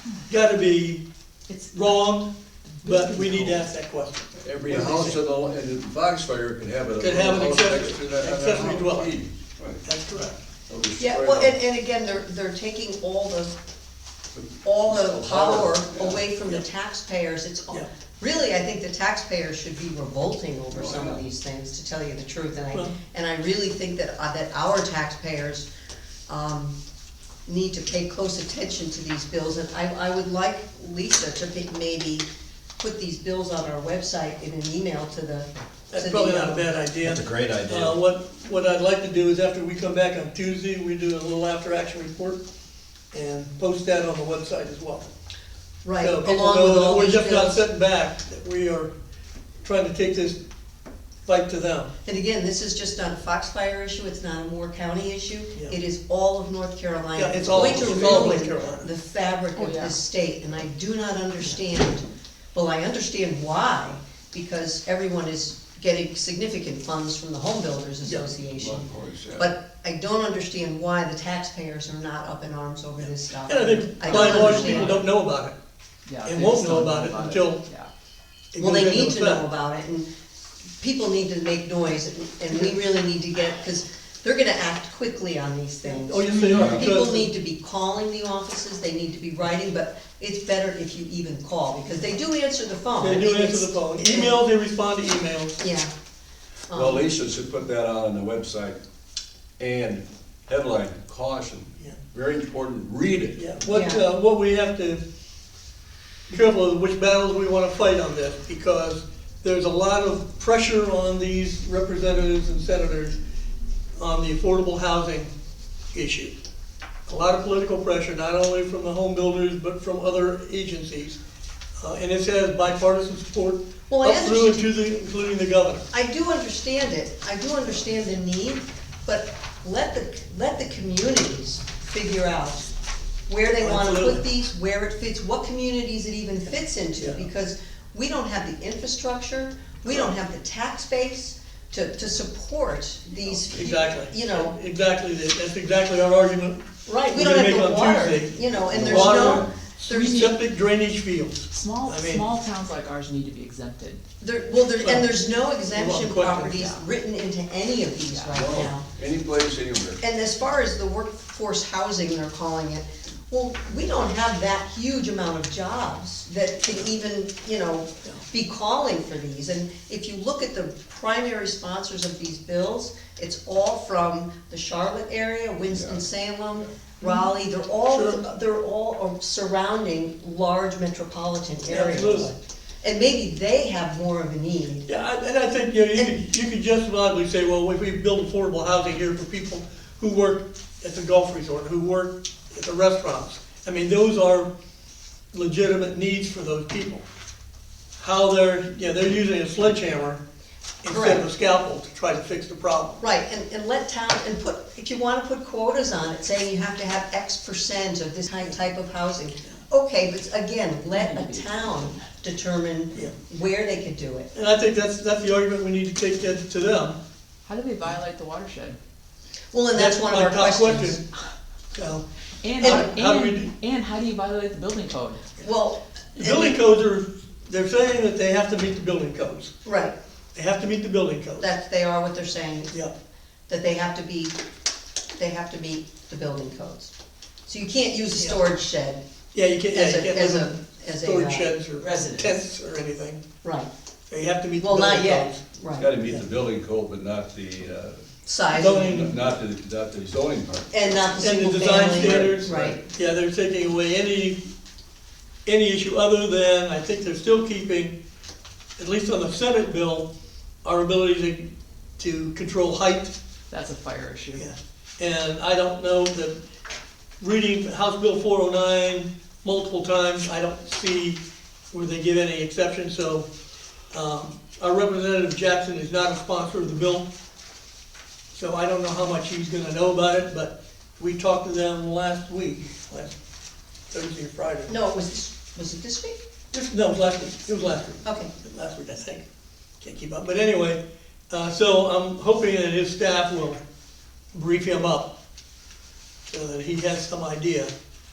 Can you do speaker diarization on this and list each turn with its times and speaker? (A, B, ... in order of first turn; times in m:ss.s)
0:00.3-0:01.0 A
0:01.5-0:01.9 B
0:01.7-0:02.3 A
0:02.8-0:03.6 B
0:02.8-0:05.2 A
0:04.4-0:09.8 C
0:07.0-0:09.2 A
0:09.8-0:10.4 A
0:10.7-0:11.5 C
0:11.0-0:13.5 D
0:14.4-0:16.3 C
0:14.6-0:25.7 D
0:20.7-0:21.2 C
0:26.3-0:26.8 D
0:27.5-0:32.3 D
0:32.8-0:36.7 D
0:35.9-0:42.4 A
0:37.0-0:38.0 C
0:43.1-0:45.1 A
0:45.8-0:47.6 D
0:46.0-0:48.9 A
0:49.6-0:50.4 A
0:51.3-0:51.9 A
0:52.0-1:15.0 D
0:57.2-0:58.9 A
0:59.6-1:00.0 B
1:08.6-1:09.5 C
1:13.0-1:15.6 A
1:14.1-1:14.9 B
1:16.1-1:17.9 B
1:16.2-1:17.6 A
1:18.5-1:19.4 A
1:18.6-1:20.1 D
1:20.8-1:34.4 D
1:25.8-1:27.3 A
1:26.5-1:26.9 C
1:33.0-1:35.6 A
1:35.6-1:35.9 D
1:36.7-1:37.0 D
1:36.7-1:38.8 C
1:39.6-1:43.5 C
1:43.4-1:45.0 A
1:43.7-1:44.0 D
1:46.3-1:53.2 A
1:54.0-1:55.3 A
1:55.9-1:56.4 A
1:57.1-2:01.2 A
2:01.8-2:05.9 A
2:03.9-2:04.6 D
2:05.9-2:12.7 D
2:13.3-2:24.6 D
2:13.6-2:14.2 A
2:17.0-2:17.2 A
2:23.5-2:32.2 A
2:26.9-2:30.3 D
2:28.6-2:29.5 C
2:29.9-2:30.4 B
2:31.5-2:34.0 B
2:34.2-2:38.9 D
2:34.8-2:35.1 A
2:35.7-2:36.6 A
2:36.5-2:36.8 B
2:38.0-2:38.4 B
2:38.3-2:40.0 C
2:40.0-3:04.9 D
2:55.7-2:56.0 C
2:57.9-2:58.2 A
3:01.7-3:02.3 A
3:04.9-3:14.5 A
3:15.3-3:17.0 A
3:18.0-3:20.2 A
3:20.8-3:23.0 A
3:20.9-3:21.3 D
3:23.0-3:34.3 D
3:30.9-3:32.0 B
3:34.3-3:37.0 A
3:37.5-3:38.8 B
3:39.5-3:41.0 D
3:39.7-3:41.0 A
3:41.7-3:42.0 A
3:42.4-3:45.2 B
3:42.6-3:43.5 A
3:42.6-3:42.9 D
3:45.4-3:46.6 D
3:46.2-3:49.5 A
3:49.6-3:50.0 D
3:50.4-3:51.5 A
3:51.4-3:52.8 D
3:53.5-3:54.4 D
3:55.2-3:56.9 D
3:57.5-3:59.0 D
3:59.3-4:03.2 A
3:59.7-4:01.6 D
4:01.8-4:02.3 B
4:03.4-4:03.7 D
4:04.1-4:05.4 A
4:04.6-4:05.9 D
4:05.8-4:08.0 C
4:08.3-4:08.9 D
4:08.5-4:09.2 A
4:08.6-4:11.0 C
4:10.7-4:12.8 D
4:11.2-4:14.5 A
4:11.9-4:12.8 C
4:15.4-4:18.0 A
4:18.8-4:20.1 A
4:20.6-4:23.1 A
4:23.5-4:24.5 B
4:24.4-4:26.4 A
4:27.2-4:31.2 A
4:31.7-4:33.3 A
4:33.9-4:37.1 A
4:38.3-4:43.2 A
4:43.9-4:44.7 A
4:44.7-4:46.2 D
4:46.5-4:49.2 A
4:48.0-4:48.3 D
4:49.8-4:53.6 A
4:54.3-4:55.2 A
4:56.3-4:57.7 A